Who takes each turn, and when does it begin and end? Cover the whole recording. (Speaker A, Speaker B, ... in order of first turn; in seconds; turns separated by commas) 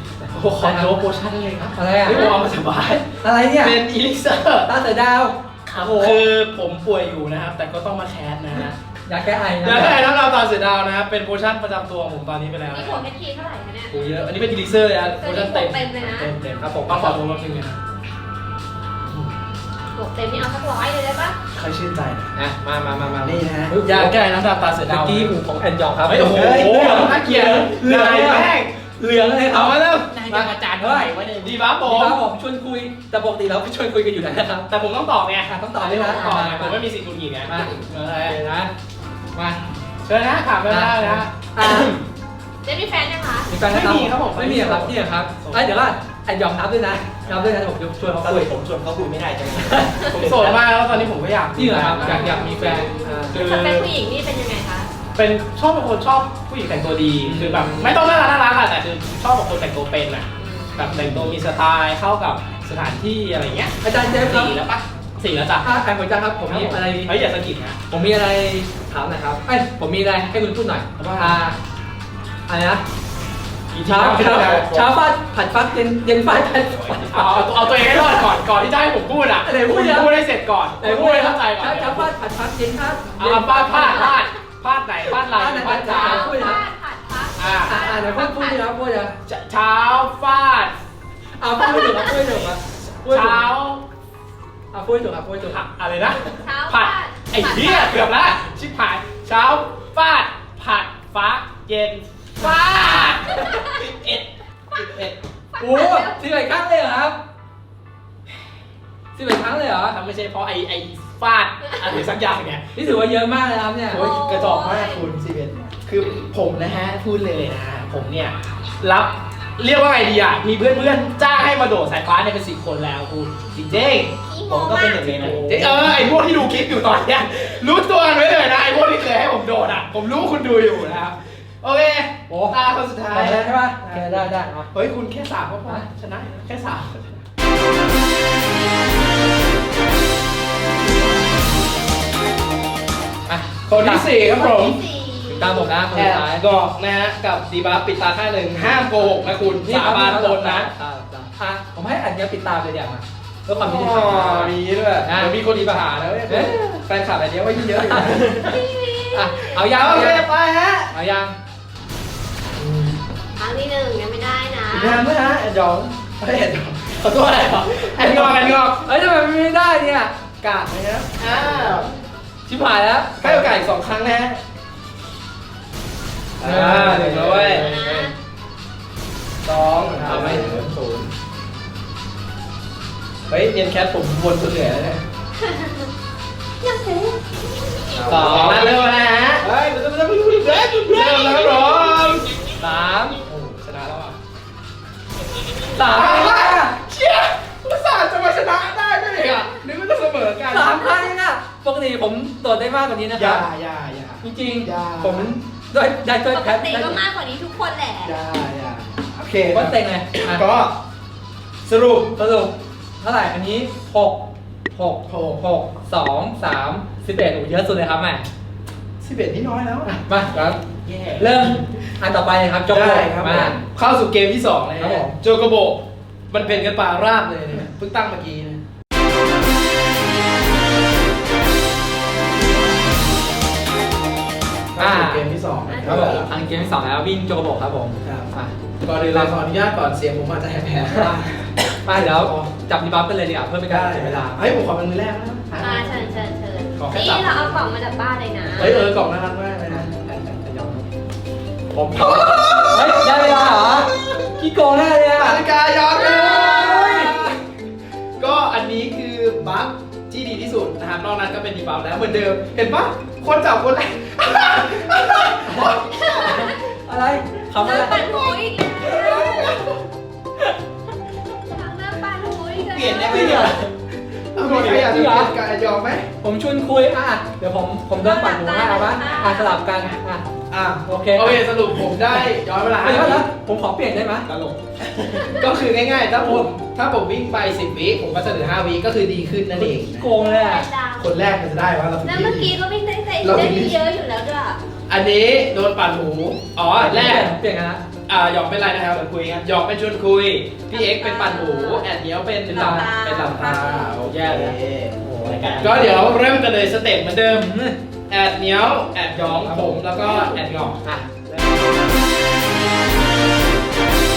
Speaker A: 0.2-0.9, Speaker B: 0.3-4.7, Speaker A: 1.8-2.4, Speaker C: 2.1-2.4, Speaker A: 3.2-3.8, Speaker A: 4.7-6.2, Speaker B: 5.7-8.7, Speaker A: 8.6-10.0, Speaker B: 9.6-13.0, Speaker C: 12.7-13.9, Speaker B: 13.9-17.8, Speaker C: 15.2-16.3, Speaker A: 16.6-17.2, Speaker C: 19.9-21.4, Speaker B: 21.5-22.3, Speaker A: 22.3-24.2, Speaker B: 23.2-25.3, Speaker A: 24.8-31.1, Speaker B: 26.1-28.7, Speaker D: 26.3-27.1, Speaker B: 29.5-32.2, Speaker D: 30.3-31.5, Speaker A: 31.8-34.7, Speaker B: 34.7-38.4, Speaker A: 35.5-36.8, Speaker A: 37.4-38.7, Speaker A: 39.3-39.6, Speaker B: 40.0-41.3, Speaker A: 40.7-42.0, Speaker C: 42.6-43.5, Speaker A: 43.5-48.5, Speaker B: 43.6-45.7, Speaker D: 48.2-50.6, Speaker A: 49.6-49.9, Speaker B: 50.1-53.9, Speaker A: 51.5-53.4, Speaker C: 52.0-54.9, Speaker B: 55.1-65.7, Speaker A: 57.2-58.0, Speaker C: 60.4-60.9, Speaker A: 63.8-64.5, Speaker A: 65.6-67.2, Speaker B: 66.5-67.8, Speaker A: 67.9-71.6, Speaker B: 71.0-71.4, Speaker A: 72.5-72.8, Speaker B: 73.7-74.9, Speaker A: 73.8-77.5, Speaker B: 76.9-82.1, Speaker A: 79.4-80.2, Speaker A: 80.8-84.2, Speaker B: 83.2-86.3, Speaker C: 83.7-84.3, Speaker A: 85.3-86.6, Speaker C: 85.8-88.7, Speaker B: 87.4-87.9, Speaker A: 87.7-89.1, Speaker B: 89.3-90.7, Speaker A: 91.4-93.5, Speaker C: 91.6-92.4, Speaker B: 93.0-93.8, Speaker A: 94.7-95.6, Speaker B: 95.5-104.2, Speaker C: 96.3-98.1, Speaker C: 103.1-103.6, Speaker D: 103.8-104.2, Speaker D: 104.7-105.1, Speaker C: 105.5-106.2, Speaker A: 105.6-107.2, Speaker A: 109.1-110.0, Speaker B: 109.9-112.7, Speaker A: 112.7-114.0, Speaker B: 113.9-124.2, Speaker C: 113.9-115.1, Speaker C: 124.3-125.3, Speaker D: 124.5-125.5, Speaker A: 125.2-126.1, Speaker B: 125.4-137.2, Speaker A: 132.3-132.6, Speaker A: 133.1-134.7, Speaker A: 143.3-144.1, Speaker B: 143.7-144.8, Speaker C: 144.2-145.7, Speaker A: 145.3-146.4, Speaker B: 145.9-150.7, Speaker A: 148.6-156.6, Speaker B: 153.5-158.6, Speaker A: 157.8-158.3, Speaker C: 158.4-159.5, Speaker A: 159.1-160.3, Speaker B: 159.5-160.9, Speaker A: 160.9-161.3, Speaker A: 162.6-163.0, Speaker C: 163.4-165.1, Speaker B: 164.7-168.8, Speaker A: 168.0-170.1, Speaker B: 170.4-171.9, Speaker C: 171.5-172.0, Speaker A: 172.5-173.6, Speaker B: 173.2-174.4, Speaker B: 176.4-177.7, Speaker A: 176.4-178.1, Speaker C: 177.6-178.1, Speaker B: 179.4-181.1, Speaker A: 180.0-180.6, Speaker D: 180.1-180.4, Speaker B: 183.3-185.0, Speaker C: 185.4-185.9, Speaker C: 186.6-187.2, Speaker B: 188.0-192.3, Speaker D: 188.1-188.5, Speaker A: 188.1-188.8, Speaker C: 190.7-192.0, Speaker A: 192.6-193.2, Speaker B: 193.2-194.2, Speaker A: 195.7-196.7, Speaker B: 195.8-201.0, Speaker A: 200.5-203.5, Speaker B: 203.1-205.3, Speaker A: 204.2-207.0, Speaker C: 206.3-208.2, Speaker B: 208.0-210.7, Speaker A: 209.5-210.4, Speaker B: 211.6-212.1, Speaker A: 212.2-218.3, Speaker B: 215.1-215.4, Speaker B: 219.0-219.9, Speaker A: 219.8-220.6, Speaker B: 220.8-221.5, Speaker A: 221.2-223.6, Speaker B: 222.7-228.6, Speaker A: 224.8-225.2, Speaker B: 234.8-236.3, Speaker A: 234.8-235.3, Speaker C: 235.7-236.2, Speaker A: 235.8-238.5, Speaker B: 238.0-238.3, Speaker B: 238.8-242.3, Speaker A: 241.8-244.5, Speaker B: 243.7-246.0, Speaker C: 245.6-248.8, Speaker B: 246.8-247.6, Speaker B: 248.5-249.9, Speaker A: 248.6-248.9, Speaker A: 249.7-250.9, Speaker B: 251.7-254.3, Speaker A: 251.9-257.4, Speaker B: 255.2-257.4, Speaker B: 258.2-266.4, Speaker A: 265.4-268.1, Speaker C: 265.8-266.6, Speaker C: 267.6-269.7, Speaker B: 268.8-269.7, Speaker C: 271.4-273.5, Speaker D: 272.6-273.6, Speaker A: 273.1-273.6, Speaker B: 274.3-276.1, Speaker A: 274.4-275.3, Speaker A: 276.2-280.2, Speaker C: 278.0-279.6, Speaker B: 280.5-283.3, Speaker A: 280.8-281.5, Speaker A: 282.8-284.3, Speaker B: 285.1-290.1, Speaker A: 289.5-290.7, Speaker C: 290.3-291.1, Speaker B: 291.0-292.5, Speaker C: 292.0-294.6, Speaker B: 293.2-293.8, Speaker B: 294.9-297.3, Speaker A: 296.7-297.8, Speaker B: 298.1-304.4, Speaker D: 298.9-299.4, Speaker C: 300.7-301.9, Speaker C: 302.5-304.0, Speaker A: 302.5-302.9, Speaker A: 304.1-305.9, Speaker D: 304.2-306.1, Speaker B: 305.6-307.5, Speaker A: 307.3-307.8, Speaker B: 308.1-311.5, Speaker A: 309.4-309.8, Speaker C: 310.0-310.6